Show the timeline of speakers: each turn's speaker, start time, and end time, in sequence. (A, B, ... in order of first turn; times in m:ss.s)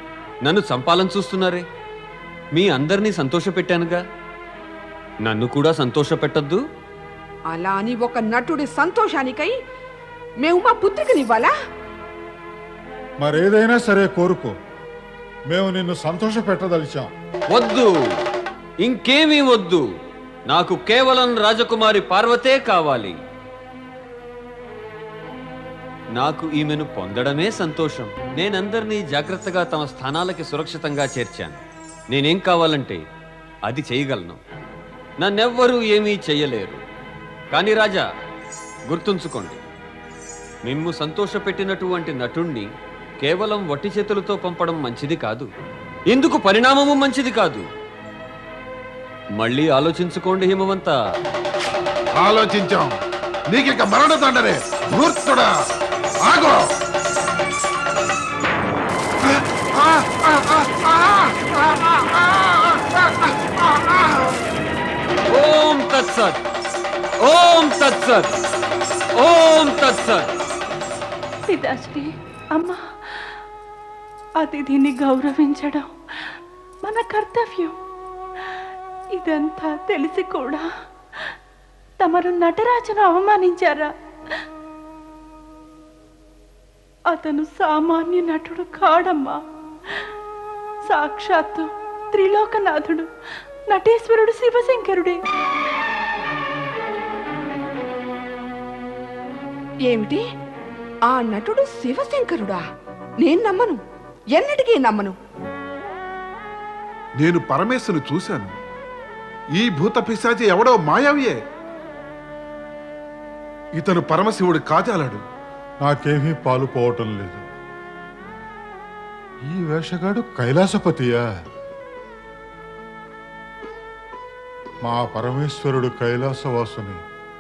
0:00.4-0:01.6 A
0:02.6-0:04.0 A
0:05.2-0:06.6 A
0:07.5-0:09.5 B
0:10.4-0:11.5 B
0:13.2-0:14.5 C
0:15.5-0:17.1 C
0:17.5-0:17.9 A
0:18.8-0:19.8 A
0:20.5-0:23.2 A
0:26.2-0:33.0 A
0:33.7-0:34.4 A
0:35.2-0:36.8 A
0:37.5-0:38.0 A
0:38.9-0:39.6 A
0:40.7-0:42.7 A
0:43.2-0:45.5 A
0:46.1-0:47.7 A
0:49.4-0:51.0 A
0:52.2-0:53.0 D
0:53.5-0:55.5 D
0:56.3-0:56.6 D
0:59.3-1:04.3 D
1:05.3-1:06.4 A
1:07.2-1:08.4 A
1:09.2-1:10.3 A
1:11.6-1:12.0 E
1:14.8-1:15.8 E
1:17.4-1:17.7 E
1:19.3-1:20.6 E
1:22.2-1:23.9 E
1:27.2-1:29.3 E
1:31.0-1:31.6 E
1:32.2-1:33.0 E
1:33.8-1:35.1 E
1:39.9-1:40.2 B
1:41.1-1:42.6 B
1:43.2-1:43.8 B
1:44.4-1:45.2 B
1:47.2-1:48.6 D
1:49.6-1:51.4 D
1:53.8-1:55.2 D
1:55.8-1:57.4 C
1:59.4-2:01.4 C
2:04.8-2:07.0 C